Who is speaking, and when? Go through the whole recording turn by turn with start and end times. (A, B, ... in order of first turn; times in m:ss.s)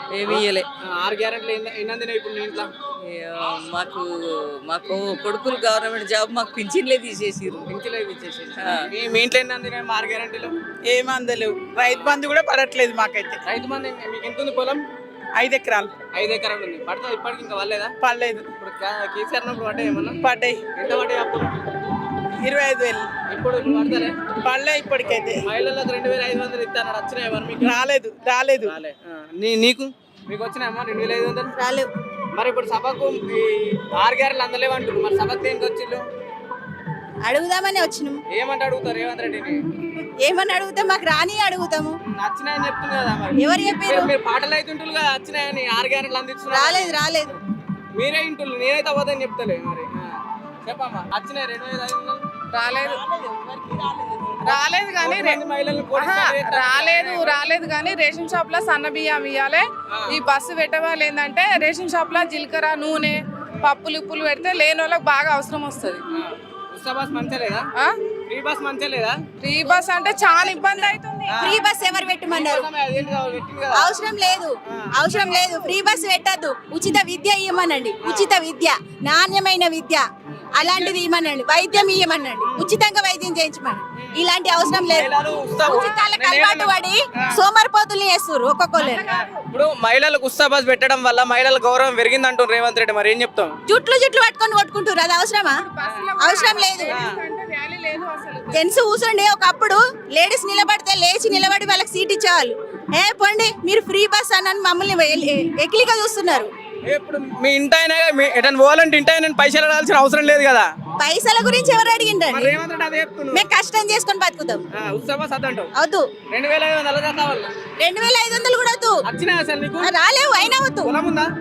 0:00.1-0:00.7 A
0:00.2-0:02.7 B
0:03.0-0:07.7 A
0:07.7-0:10.5 B
0:08.6-0:08.9 A
0:10.9-0:13.4 C
0:11.9-0:12.2 B
0:13.4-0:14.8 B
0:15.4-0:16.0 C
0:16.1-0:17.9 B
0:18.0-0:18.5 C
0:18.5-0:21.5 B
0:20.2-0:20.7 C
0:22.4-0:23.1 C
0:23.3-0:24.1 B
0:24.4-0:25.4 C
0:25.4-0:27.8 B
0:27.6-0:28.8 C
0:28.6-0:31.5 B
0:31.6-0:31.9 D
0:32.3-0:36.0 B
0:37.2-0:38.2 D
0:38.3-0:39.6 B
0:40.2-0:42.0 D
0:42.1-0:46.9 B
0:43.4-0:44.1 D
0:46.5-0:47.4 D
0:47.9-0:52.3 B
0:52.5-0:53.0 E
0:52.9-0:57.4 B
0:54.4-0:55.4 E
0:55.9-1:06.0 E
0:59.9-1:00.2 B
1:06.1-1:07.7 B
1:08.3-1:09.2 B
1:09.4-1:11.6 E
1:10.1-1:10.8 D
1:11.3-1:11.6 B
1:11.4-1:12.7 D
1:12.3-1:14.0 B
1:13.7-1:25.1 D
1:18.0-1:18.4 B
1:24.0-1:24.2 B
1:24.8-1:27.4 B
1:25.6-1:26.0 E
1:25.6-1:29.1 D
1:28.8-1:29.5 E
1:29.1-1:33.6 B
1:33.7-1:35.6 D
1:35.7-1:38.8 E
1:36.2-1:37.0 D
1:36.9-1:37.2 B
1:38.5-1:46.5 D
1:46.8-1:50.7 B
1:51.0-1:52.6 D
1:52.3-1:53.4 B
1:53.3-1:54.6 D
1:54.7-1:55.7 B
1:55.8-1:56.1 D
1:56.3-1:57.6 B
1:57.8-1:59.0 D
1:59.1-1:59.9 B
1:59.8-2:00.9 D
2:00.8-2:01.3 B